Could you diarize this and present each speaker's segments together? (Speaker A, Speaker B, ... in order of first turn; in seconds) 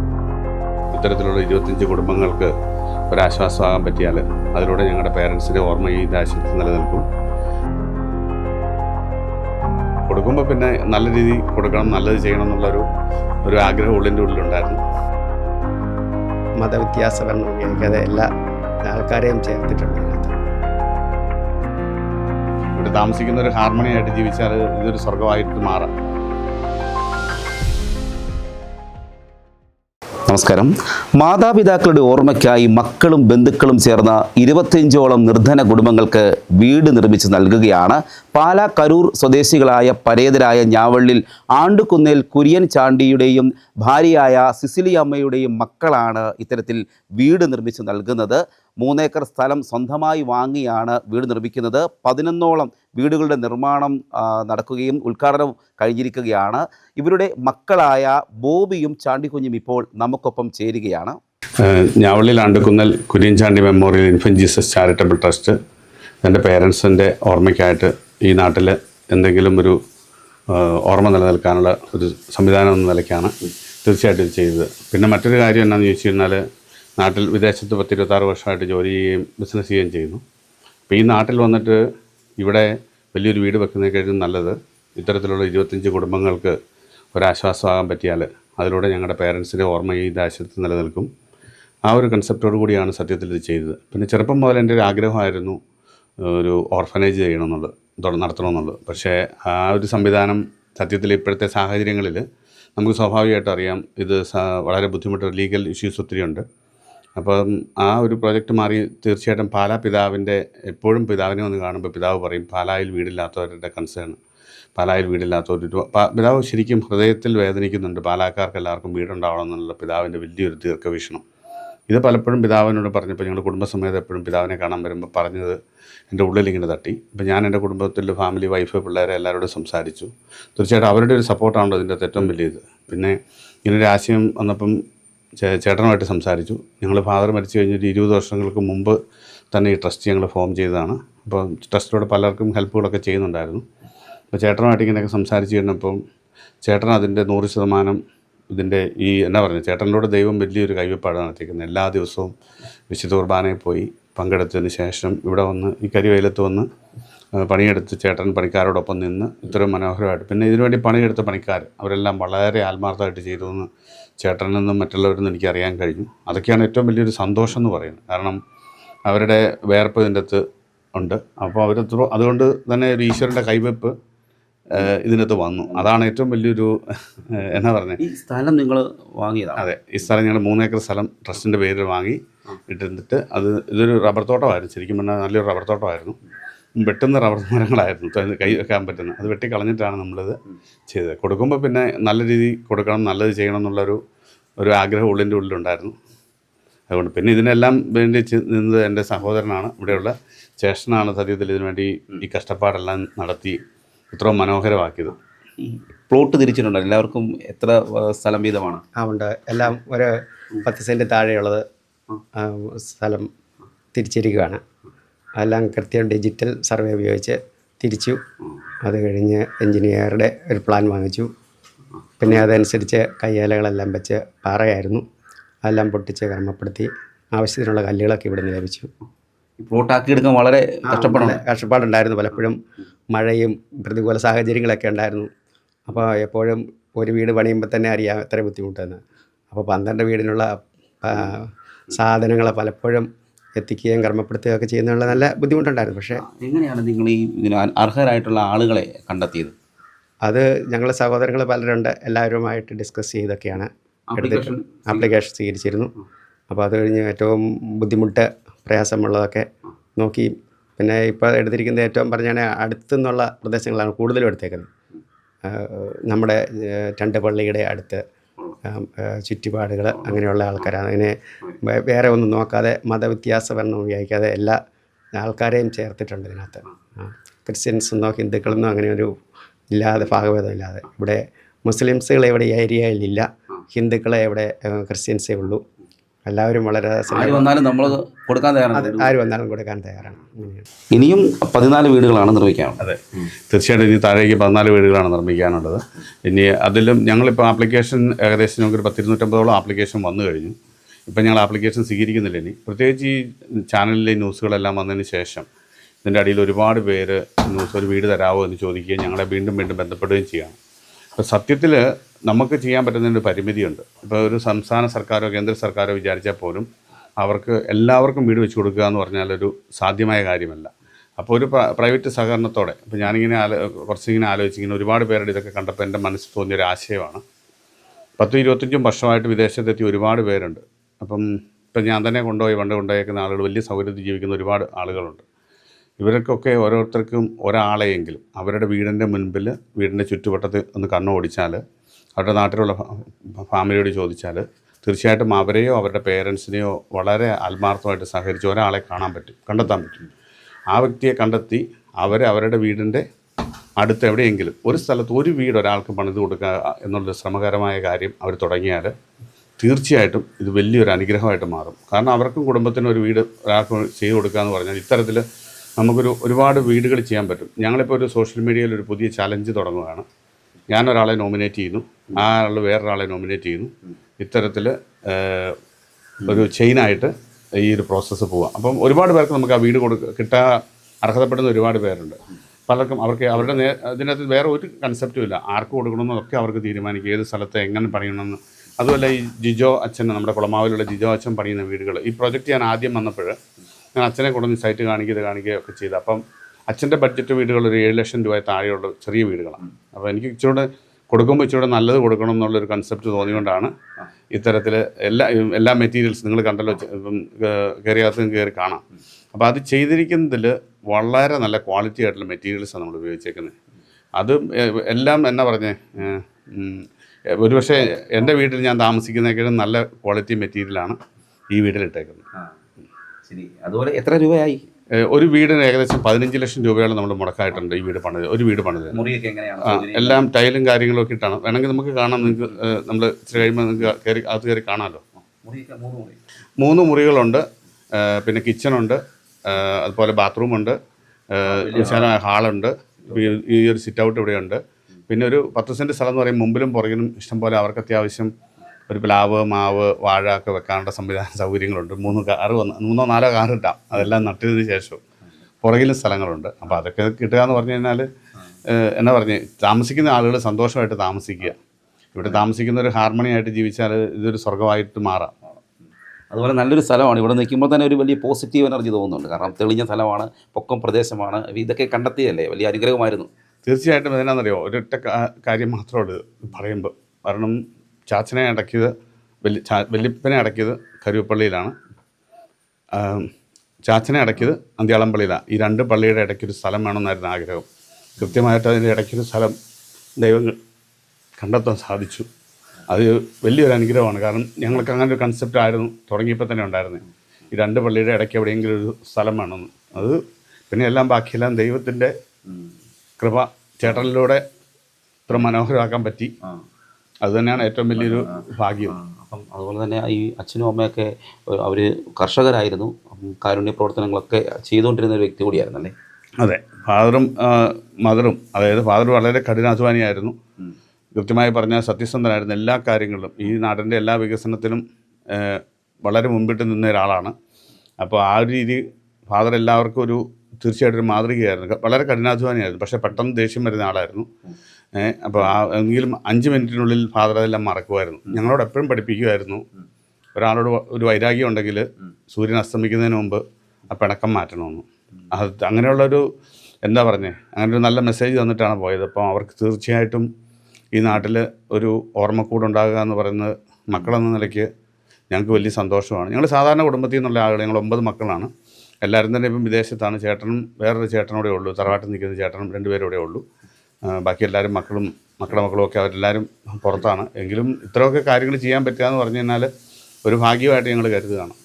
Speaker A: 0.9-2.5, 3.1-7.0, 10.1-12.8, 13.4-14.8, 22.8-25.9, 61.6-65.5, 66.2-69.8, 70.5-73.3, 73.8-76.4, 77.0-80.2, 80.9-81.8, 82.4-86.5, 87.1-91.1, 91.9-95.6, 96.2-102.2, 102.8-106.4, 107.2-114.2, 114.8-121.2, 121.9-125.6, 126.1-134.8, 135.4-138.9, 139.5-143.6, 144.3-146.0, 146.6-148.0, 148.5-152.3, 152.9-156.7, 157.4-163.7, 164.2-168.4, 169.1-170.4, 170.9-173.9, 174.7-178.0, 179.6-186.2, 186.8-190.4, 190.9-194.0, 194.6-195.9, 196.9-203.6, 204.1-205.2, 292.8-300.5, 301.1-305.5, 306.0-310.6, 311.2-316.7, 317.2-327.2, 328.2-335.2, 336.0-341.6, 342.2-350.0, 350.7-353.0, 353.8-358.9, 359.6-365.2, 365.8-370.0, 370.7-375.6, 376.2-380.5, 381.0-393.4, 394.0-403.7, 404.3-408.8, 409.3-413.5, 414.2-421.0, 421.5-422.2, 425.0-428.9, 429.6-435.0, 436.6-437.4, 437.9-440.8, 441.3-448.3, 448.9-455.0, 455.6-458.1, 458.7-461.6, 462.1-465.3, 473.6-477.6, 478.1-478.9, 479.4-481.7, 482.9-483.3, 483.9-487.6, 488.2-489.6, 490.2-490.6, 491.4-492.3, 492.9-502.1, 503.2-504.4, 505.3-506.3, 507.2-509.0, 516.4-520.4, 521.1-527.3, 528.0-534.3, 535.0-539.6, 540.4-546.2, 546.9-550.3, 550.9-554.7, 555.3-558.5, 559.0-563.4, 564.1-569.7, 570.2-571.5
Speaker B: 16.6-18.3, 18.9-20.4, 209.0-211.6, 212.4-213.3, 213.9-214.6, 215.4-218.2, 218.8-221.3, 222.2-225.0, 225.6-228.9, 230.8-232.6, 233.1-235.3, 235.8-246.2, 250.2-255.9, 256.5-259.4, 260.0-264.7, 265.4-268.0, 268.6-274.6, 275.1-279.1, 279.7-285.6, 286.2-287.5, 288.7-290.6
Speaker C: 30.3-61.2, 178.0-179.6, 205.6-208.8, 229.6-231.4, 246.2-249.5, 254.1-255.1, 287.1-289.1, 290.9-292.8, 423.3-424.6, 428.9-430.2, 435.4-436.2, 441.5-442.1, 466.3-473.3, 508.0-508.4, 508.9-515.9